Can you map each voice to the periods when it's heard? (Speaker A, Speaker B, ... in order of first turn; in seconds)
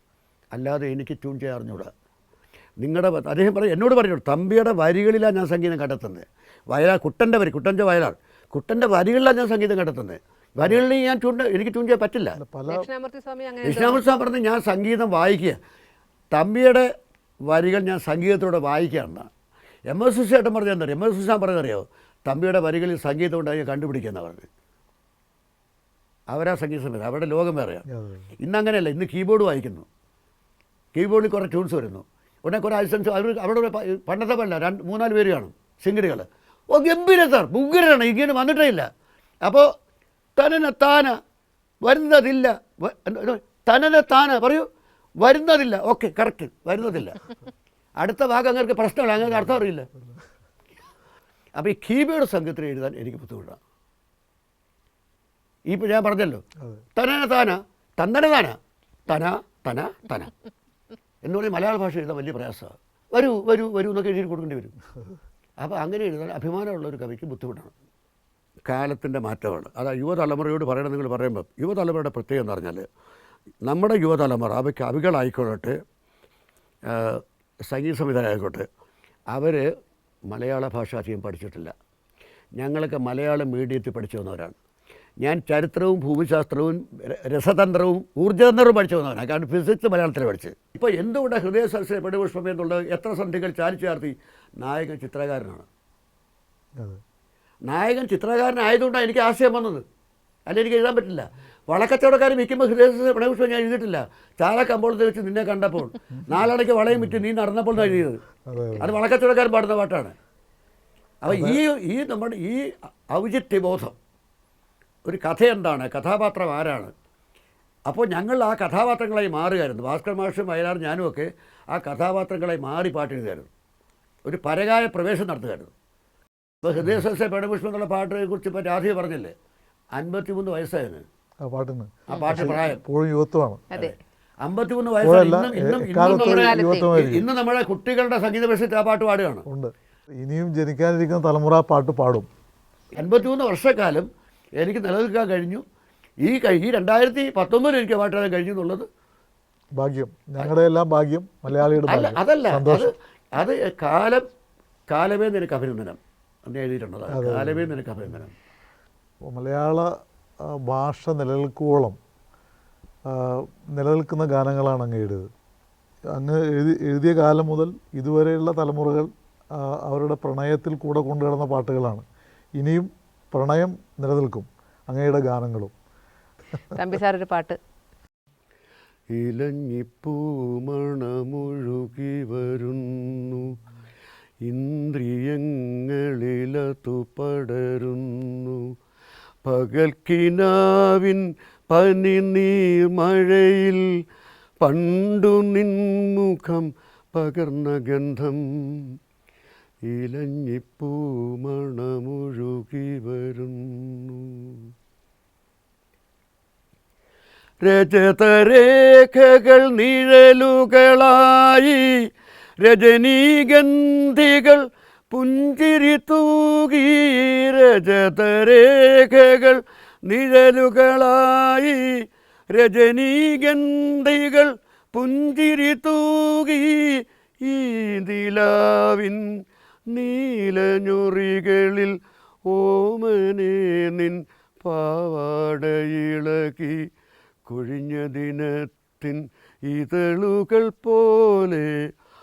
Speaker A: 0.5-1.9, 2.8-12.4, 13.6-15.6, 16.3-16.9, 17.5-19.3, 19.9-24.5, 26.3-27.9, 28.4-29.9, 30.9-38.9, 39.4-39.7, 40.4-41.2, 41.8-44.7, 45.2-47.2, 48.0-49.9, 51.6-53.6, 55.7-56.4, 57.0-60.3, 61.2-64.8, 65.6-67.7, 68.7-72.8, 73.7-75.8, 76.9-78.7, 79.3-79.7, 80.3-81.7, 82.6-84.6, 85.2-95.7, 97.7-99.8, 100.5-108.2, 108.8-110.2, 111.2-114.0, 115.0-116.9, 117.9-123.5, 124.3-125.7, 126.6-129.3, 129.9-131.1, 132.1-132.8, 133.7-139.5, 143.0-145.6, 146.2-148.9, 151.8-154.2, 154.9-158.3, 179.1-183.6, 184.4-188.7, 189.4-193.8, 194.6-198.8, 199.9-204.6, 207.6-211.9, 212.6-229.3, 229.9-232.0, 232.5-236.9, 237.5-241.8
Speaker B: 12.4-12.9, 27.9-28.3, 106.9-107.2, 107.8-109.0, 111.3-111.6, 131.4-133.6, 135.0-137.3, 139.5-142.3, 149.8-152.9, 157.1-157.7, 159.3-159.9, 160.4-162.0, 163.1-165.3, 166.1-172.1, 172.6-175.7
Speaker C: 12.7-14.0, 136.1-136.9, 176.7-177.6